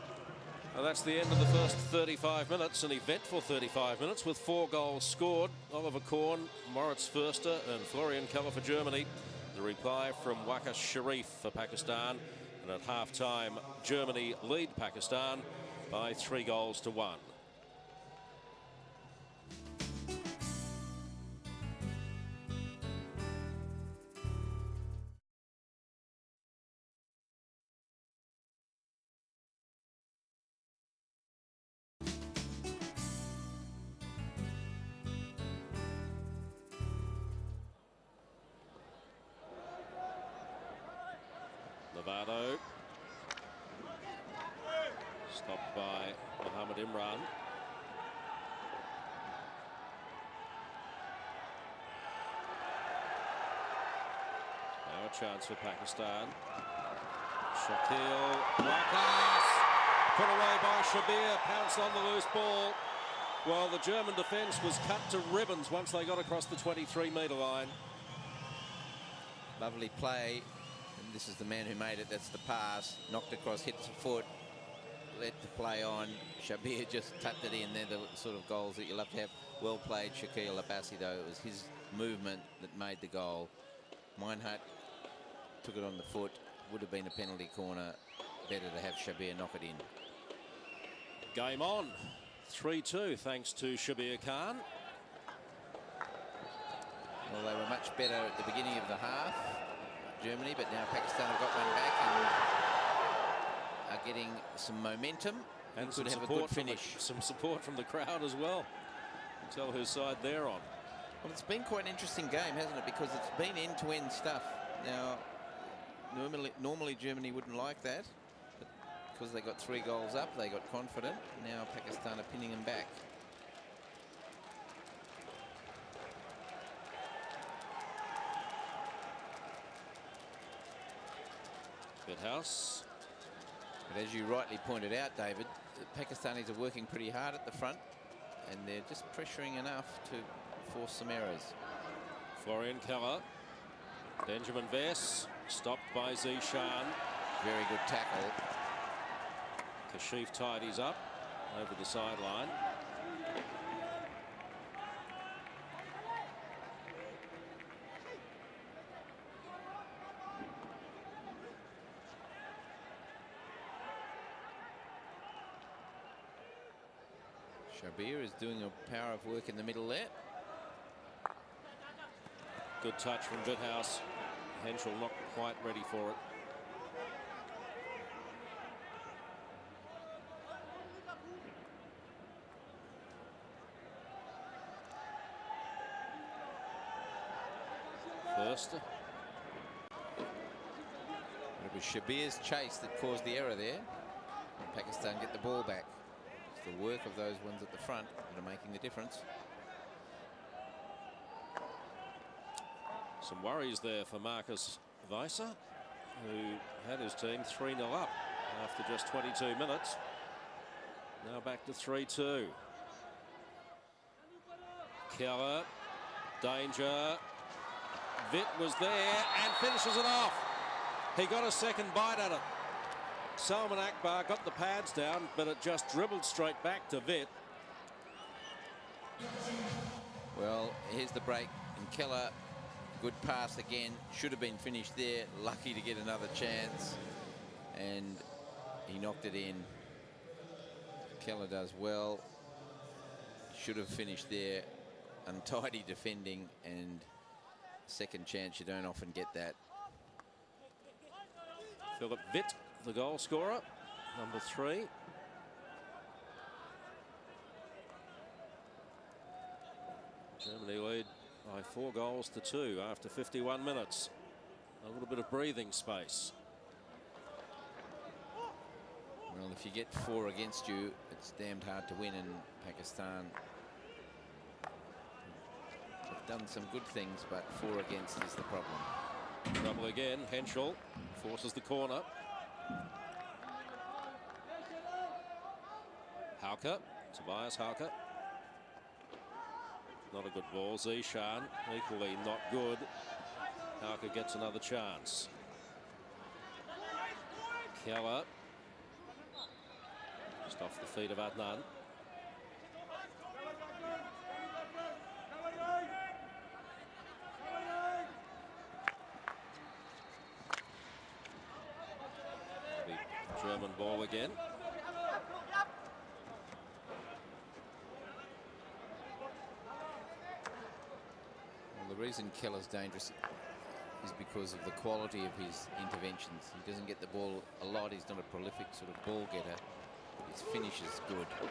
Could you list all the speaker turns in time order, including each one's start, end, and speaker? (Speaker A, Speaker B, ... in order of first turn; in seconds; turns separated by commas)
Speaker A: 0.7-17.3, Speaker A: 41.9-42.6, Speaker A: 45.3-47.3, Speaker A: 54.8-56.4, Speaker A: 57.5-62.8, Speaker A: 63.4-67.7, Speaker B: 69.6-74.3, Speaker B: 75.1-83.5, Speaker B: 84.1-84.7, Speaker B: 85.6-89.9, Speaker A: 91.3-94.6, Speaker B: 97.2-102.5, Speaker B: 103.8-107.0, Speaker A: 105.8-108.7, Speaker A: 109.4-110.7, Speaker B: 111.2-115.3, Speaker B: 116.0-123.0, Speaker A: 132.0-132.8, Speaker B: 133.9-137.8, Speaker B: 138.4-141.5, Speaker A: 142.3-143.2, Speaker A: 144.2-147.0, Speaker B: 147.4-148.4, Speaker A: 149.9-152.6, Speaker B: 167.7-170.1, Speaker A: 172.8-176.2, Speaker A: 188.2-188.8, Speaker B: 191.6-193.9, Speaker B: 194.6-199.3, Speaker A: 203.2-205.6, Speaker A: 206.1-210.0, Speaker A: 211.2-212.6, Speaker A: 215.1-215.7, Speaker A: 216.4-217.2, Speaker A: 218.2-220.4, Speaker A: 221.1-222.4, Speaker A: 223.4-227.3, Speaker B: 230.3-232.4, Speaker B: 233.0-237.0, Speaker B: 237.7-238.2, Speaker B: 238.8-240.0, Speaker B: 241.2-242.3, Speaker B: 243.5-247.1, Speaker B: 247.8-249.6, Speaker A: 251.9-254.9, Speaker A: 260.3-264.1, Speaker A: 264.8-266.3, Speaker B: 269.3-273.4, Speaker B: 276.1-278.9, Speaker A: 279.5-282.1, Speaker A: 286.4-287.9, Speaker A: 290.1-292.9, Speaker A: 293.8-295.3, Speaker A: 297.7-298.3, Speaker A: 300.4-301.7, Speaker A: 312.8-314.4, Speaker B: 321.7-323.2, Speaker B: 324.0-329.6, Speaker B: 330.2-331.4